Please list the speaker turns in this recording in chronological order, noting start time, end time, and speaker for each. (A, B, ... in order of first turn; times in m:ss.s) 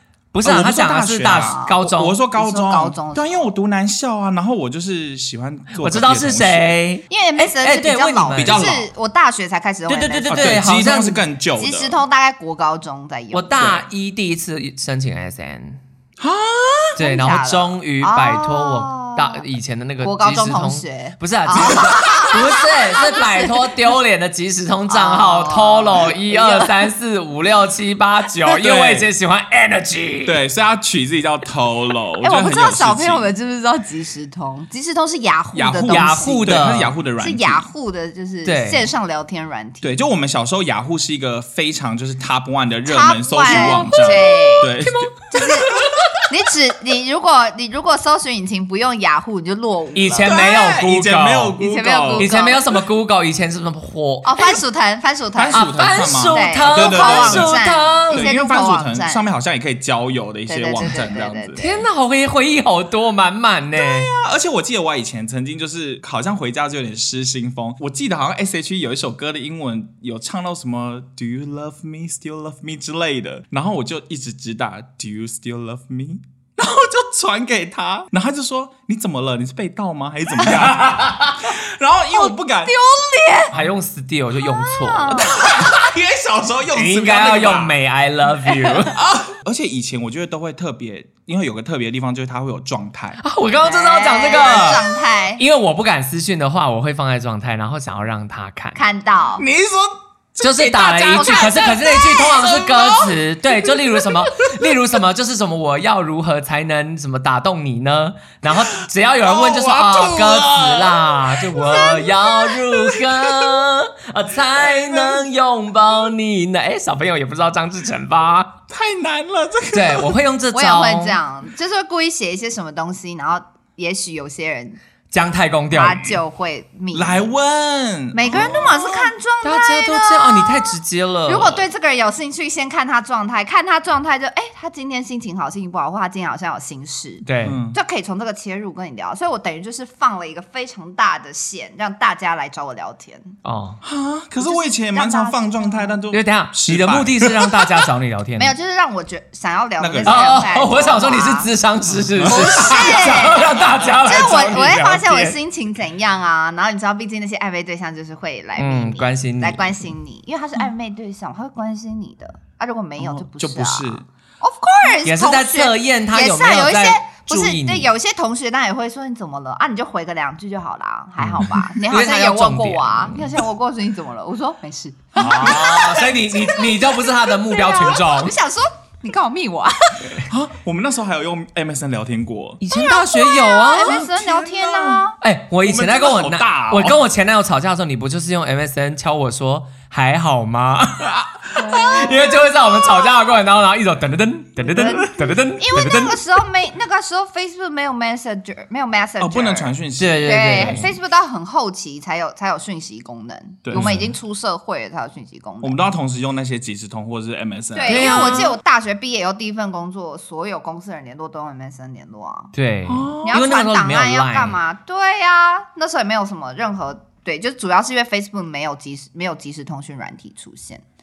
0:00.3-0:02.2 A
0:00.4-0:06.7 B
0:01.4-0:01.8 C
0:02.3-0:03.5 C
0:05.7-0:08.7 A
0:07.1-0:10.6 C
0:08.3-0:08.9 B
0:09.9-0:11.2 A
0:10.3-0:12.0 B
0:11.6-0:13.7 C
0:13.3-0:15.8 A
0:16.2-0:16.9 B
0:17.0-0:30.4 A
0:17.0-0:19.4 C
0:20.0-0:23.7 C
0:24.9-0:26.9 C
0:28.4-0:29.1 B
0:30.2-0:33.2 B
0:32.2-0:36.4 C
0:35.5-0:37.7 B
0:35.9-0:37.0 A
0:37.2-0:40.0 C
0:38.4-0:38.9 A
0:39.8-0:46.1 B
0:42.9-0:45.7 C
0:43.5-0:45.0 A
0:46.2-0:50.6 C
0:50.0-0:51.6 A
0:50.2-0:52.3 B
0:51.6-0:52.6 C
0:52.2-0:54.5 A
0:54.2-0:59.2 C
0:55.3-1:01.6 B
0:55.5-0:58.3 A
1:00.5-1:01.8 C
1:01.6-1:04.1 A
1:03.8-1:22.8 B
1:20.7-1:21.3 A
1:22.1-1:23.5 C
1:23.5-1:25.4 A
1:24.5-1:25.8 C
1:25.2-1:27.8 B
1:26.7-1:29.0 A
1:28.8-1:33.2 B
1:33.2-1:34.8 A
1:33.6-1:35.4 C
1:35.4-1:38.8 A
1:38.8-1:39.4 C
1:39.4-1:44.8 B
1:40.4-1:58.6 A
1:41.0-1:41.8 C
1:48.4-1:53.5 B
1:54.6-1:55.2 B
1:58.7-2:00.2 B
1:59.7-2:01.2 A
2:00.5-2:04.8 C
2:05.1-2:06.2 A
2:05.7-2:07.3 C
2:06.9-2:09.1 B
2:08.1-2:10.7 C
2:09.4-2:11.7 A
2:11.3-2:23.3 C
2:17.2-2:17.6 A
2:17.4-2:17.8 B
2:23.4-2:23.8 A
2:23.8-2:27.7 B
2:24.4-2:26.0 C
2:26.1-2:28.6 A
2:28.4-2:31.5 C
2:29.8-2:30.4 B
2:30.1-2:35.4 A
2:32.2-2:34.0 B
2:32.2-3:00.2 C
2:38.6-2:39.8 A
2:43.0-2:44.0 B
2:45.0-2:47.9 A
2:51.2-2:51.6 B
2:51.4-2:53.3 A
2:55.2-2:58.3 A
2:55.2-2:55.7 B
3:00.3-3:02.6 B
3:02.6-3:04.0 A
3:02.7-3:05.2 C
3:03.8-3:07.0 B
3:05.2-3:16.2 A
3:11.1-3:12.2 B
3:11.6-3:12.4 C
3:14.6-3:25.8 C
3:19.2-3:20.9 B
3:20.0-3:20.9 A
3:23.6-3:24.0 B
3:23.8-3:24.1 A
3:25.6-3:28.4 B
3:27.8-3:32.5 C
3:27.9-3:28.6 A
3:32.5-3:34.6 A
3:32.9-3:33.4 B
3:33.2-3:40.8 C